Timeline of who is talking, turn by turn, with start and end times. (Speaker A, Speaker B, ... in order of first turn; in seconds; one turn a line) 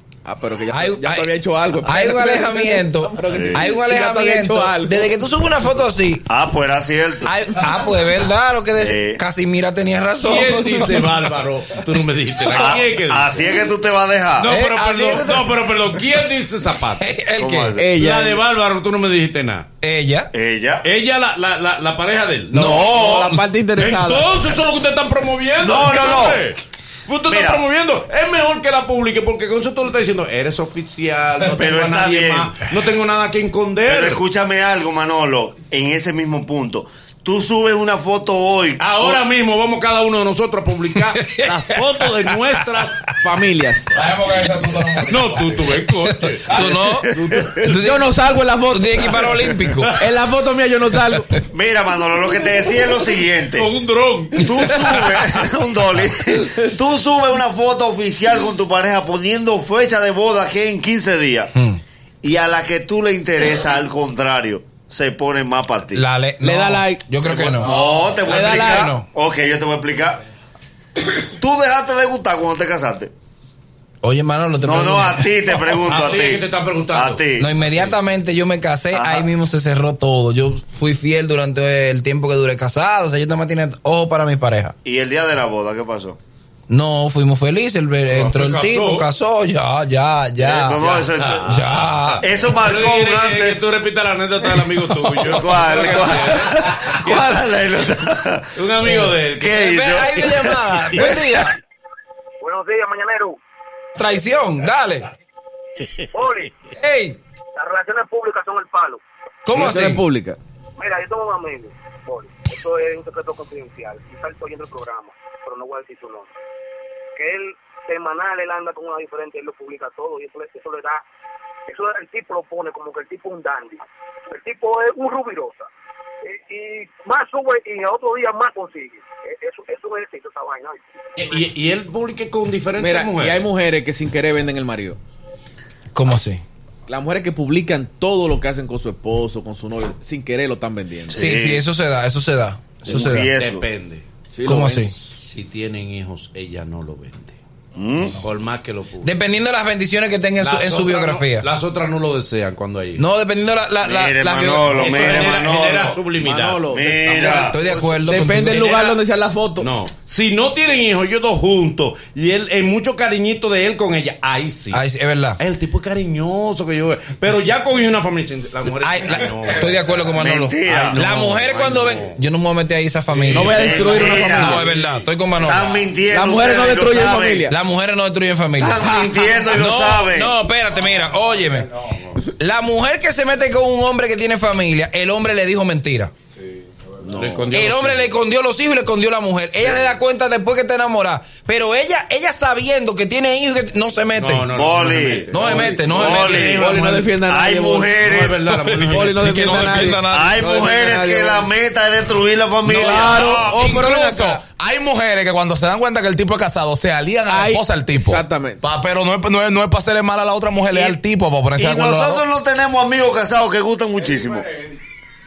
Speaker A: 0.2-5.1
Speaker B: 0.7-1.3
Speaker B: 1.8-6.3
Speaker C: 3.3-3.6
Speaker C: 6.3-7.3
Speaker B: 7.2-11.1
Speaker C: 8.8-9.2
Speaker D: 10.2-13.4
Speaker C: 12.5-14.5
Speaker D: 14.4-17.1
Speaker B: 14.4-15.5
Speaker B: 17.0-17.8
Speaker C: 17.4-17.9
Speaker A: 17.8-18.4
Speaker D: 17.9-19.7
Speaker B: 19.8-20.3
Speaker C: 20.3-20.8
Speaker D: 20.8-22.9
Speaker B: 22.5-23.4
Speaker A: 22.6-24.3
Speaker D: 23.8-34.2
Speaker C: 25.6-26.4
Speaker C: 27.3-27.6
Speaker C: 31.5-32.6
Speaker C: 33.9-39.2
Speaker D: 38.8-43.0
Speaker B: 41.1-42.8
Speaker A: 43.2-43.9
Speaker E: 44.0-45.5
Speaker B: 44.7-45.2
Speaker D: 45.1-47.6
Speaker B: 45.8-48.1
Speaker C: 46.5-47.7
Speaker A: 47.7-49.3
Speaker B: 48.7-49.9
Speaker A: 50.0-51.3
Speaker C: 51.5-53.7
Speaker D: 53.5-55.4
Speaker C: 54.4-61.5
Speaker C: 62.2-66.0
Speaker B: 65.9-67.7
Speaker A: 66.4-67.1
Speaker D: 67.2-67.6
Speaker C: 67.6-70.2
Speaker A: 67.6-68.9
Speaker B: 68.3-69.0
Speaker C: 71.4-73.1
Speaker B: 74.0-75.6
Speaker C: 74.6-77.5
Speaker D: 75.8-77.2
Speaker B: 77.4-84.8
Speaker C: 78.9-79.3
Speaker C: 84.8-86.2
Speaker B: 86.7-90.8
Speaker D: 88.1-89.1
Speaker C: 90.4-91.5
Speaker D: 90.8-97.4
Speaker B: 91.4-92.2
Speaker C: 92.2-93.6
Speaker C: 95.2-100.4
Speaker D: 98.5-101.1
Speaker B: 98.9-101.5
Speaker F: 102.4-103.4
Speaker B: 104.0-105.1
Speaker F: 106.1-106.5
Speaker B: 106.8-107.2
Speaker F: 107.5-109.0
Speaker B: 109.5-110.0
Speaker A: 109.5-110.4
Speaker F: 110.8-116.3
Speaker F: 117.2-121.0
Speaker F: 121.7-125.7
Speaker F: 126.2-130.8
Speaker D: 131.2-133.5
Speaker A: 132.8-135.0
Speaker B: 135.9-136.4
Speaker A: 136.9-141.2
Speaker C: 141.1-141.6
Speaker B: 141.1-143.3
Speaker C: 142.8-143.7
Speaker D: 143.0-144.0
Speaker A: 144.3-144.9
Speaker B: 144.4-144.9
Speaker D: 145.2-147.4
Speaker C: 147.8-148.2
Speaker D: 148.2-149.1
Speaker B: 149.0-151.5
Speaker D: 150.4-153.0
Speaker B: 153.0-155.2
Speaker C: 153.8-156.0
Speaker D: 154.7-159.0
Speaker A: 156.1-159.7
Speaker C: 156.7-157.6
Speaker B: 157.5-158.7
Speaker D: 159.6-164.8
Speaker B: 164.7-165.4
Speaker D: 165.4-172.2
Speaker B: 168.7-175.7
Speaker C: 170.1-171.0
Speaker D: 173.1-175.1
Speaker A: 173.3-174.6
Speaker C: 173.4-174.6
Speaker C: 175.4-177.5
Speaker A: 176.1-177.5
Speaker B: 177.5-178.9
Speaker C: 178.6-180.3
Speaker B: 179.5-181.7
Speaker D: 181.9-182.2
Speaker B: 182.2-186.1
Speaker A: 187.0-187.4
Speaker D: 187.1-188.1
Speaker B: 187.5-194.5
Speaker D: 194.2-197.1
Speaker C: 194.5-198.6
Speaker B: 195.3-196.6
Speaker A: 195.4-195.8
Speaker A: 196.5-197.9
Speaker D: 198.0-200.0
Speaker A: 198.8-201.5
Speaker B: 199.1-200.4
Speaker C: 200.0-203.7
Speaker A: 202.6-204.4
Speaker D: 202.7-204.3
Speaker E: 204.4-212.2
Speaker A: 207.2-208.6
Speaker C: 211.6-214.5